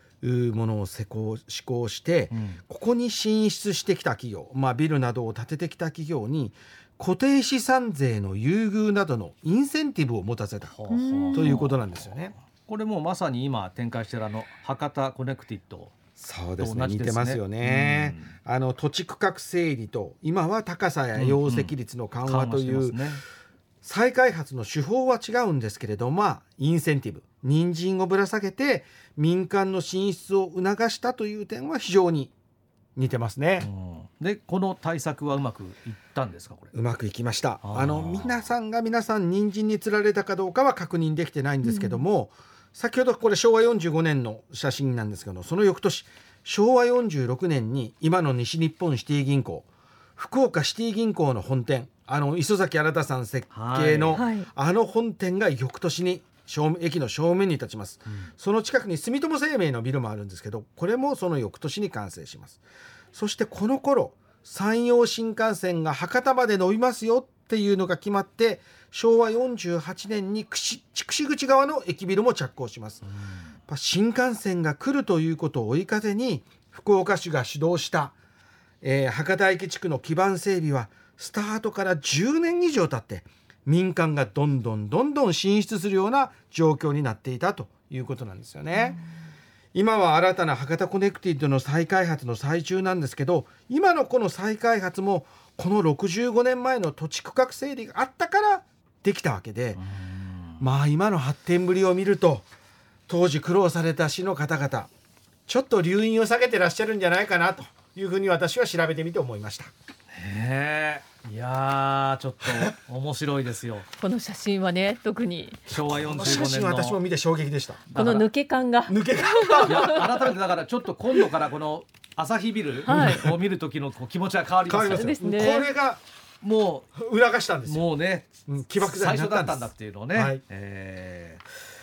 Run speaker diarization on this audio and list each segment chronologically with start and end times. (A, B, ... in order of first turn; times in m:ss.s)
0:00.2-0:10.8 A
0:02.3-0:02.6 B
0:10.8-0:11.8 B
0:10.9-0:11.7 C
0:11.3-0:12.3 A
0:12.6-0:16.0 B
0:16.2-0:23.0 A
0:16.6-0:18.3 B
0:21.2-0:21.7 B
0:22.2-0:23.2 B
0:23.8-0:32.3 A
0:33.0-0:33.7 A
0:33.6-0:36.7 B
0:36.7-1:02.6 A
0:37.6-0:38.4 B
0:41.6-0:42.0 C
0:53.5-0:54.2 B
0:54.1-0:54.5 C
1:03.1-1:13.0 A
1:13.7-1:18.2 A
1:18.8-1:29.0 A
1:28.7-1:29.0 C
1:29.7-1:39.8 A
1:39.8-1:40.6 B
1:40.6-1:42.5 A
1:43.1-1:44.9 A
1:45.5-1:49.7 A
1:50.1-1:53.9 B
1:54.0-1:55.6 C
1:55.7-1:57.0 B
1:55.8-1:57.9 A
1:57.9-1:58.2 B
1:58.0-2:00.1 C
1:58.9-2:00.1 A
1:59.7-2:05.2 B
2:02.9-2:03.3 C
2:02.9-2:03.3 A
2:04.7-2:06.0 A
2:04.9-2:05.7 C
2:06.4-2:06.9 B
2:07.0-2:07.8 A
2:07.7-2:11.4 B
2:08.5-2:10.4 A